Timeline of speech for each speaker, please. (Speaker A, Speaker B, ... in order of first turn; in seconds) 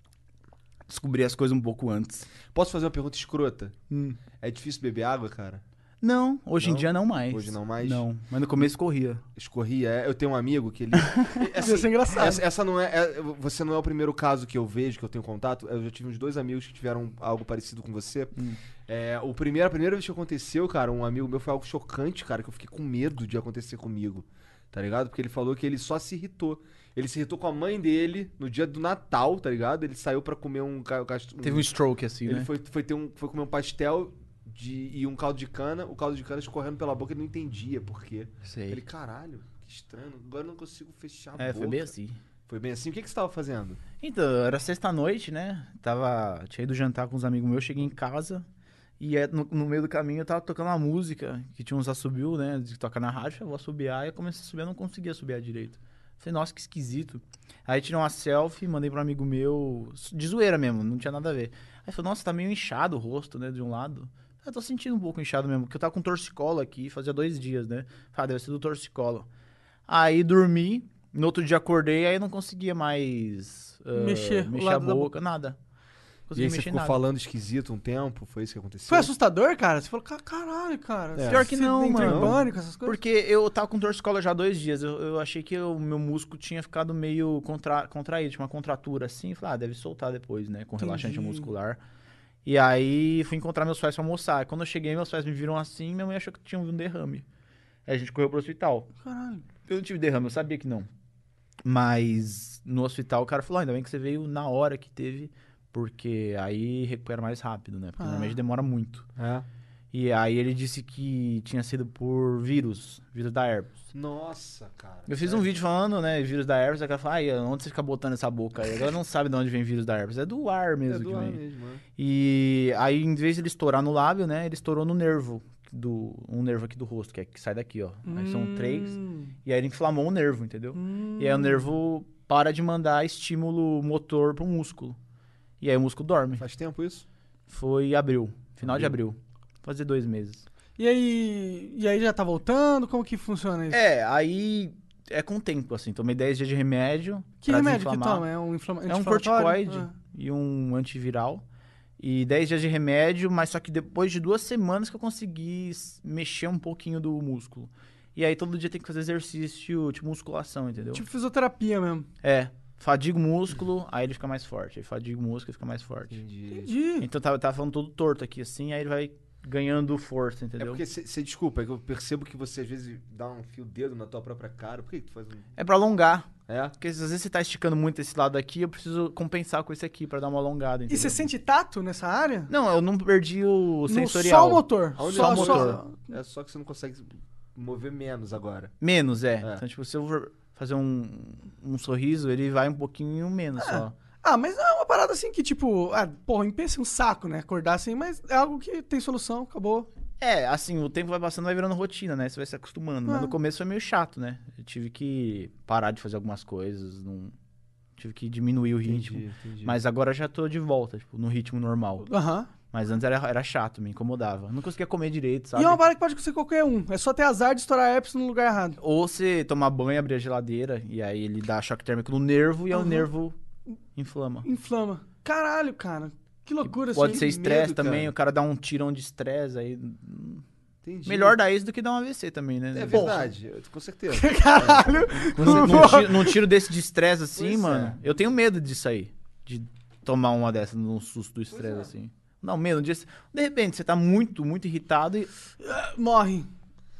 Speaker A: 0.9-2.3, 3.9-4.2, 6.0-9.2, 31.4-32.5, 38.4-38.8, 41.4-42.2, 44.0-48.5, 49.0-69.3, 69.9-75.6, 76.3-77.0, 81.3-91.8, 92.4-97.2, 97.9-98.9, 99.7-100.9, 101.6-109.0, 109.9-113.8, 115.1-121.4, 122.0-135.0, 135.6-136.4, 137.5-140.4, 143.7-148.2, 148.9-151.4, 152.0-161.0, 162.2-166.2, 167.0-170.8, 175.6-181.3, 182.5-185.8, 188.8-193.9, 200.2-207.3, 208.0-212.1, 212.7-215.8, 218.8-223.3, 223.9-224.5, 226.7-230.4, 231.1-233.1, 235.3-245.3
Speaker B: 2.5-3.8, 4.4-5.6, 6.6-8.1, 9.3-18.3, 18.9-31.7, 32.2-41.9, 42.5-43.8, 76.3-79.1, 81.1-82.4, 109.2-109.5, 113.9-115.5, 120.9-121.8, 136.4-137.1, 138.6-138.9, 166.1-166.7, 170.6-175.5, 176.5-176.7, 185.0-188.7, 208.8-209.8, 226.9-228.1, 230.8-231.4, 232.7-236.0, 237.3-238.0, 241.5-241.9
Speaker C: 11.6-12.4, 73.9-75.1, 78.9-83.0, 90.8-91.5, 99.0-99.4, 108.0-108.3, 128.1-129.3, 130.7-131.7, 140.8-143.8, 147.4-149.9, 160.9-162.1, 166.5-167.1, 180.9-182.5, 183.9-186.0, 193.6-199.9, 203.1-203.3, 212.0-212.5, 215.5-218.8, 222.7-223.1, 224.4-227.3, 234.1-236.4, 245.6-246.5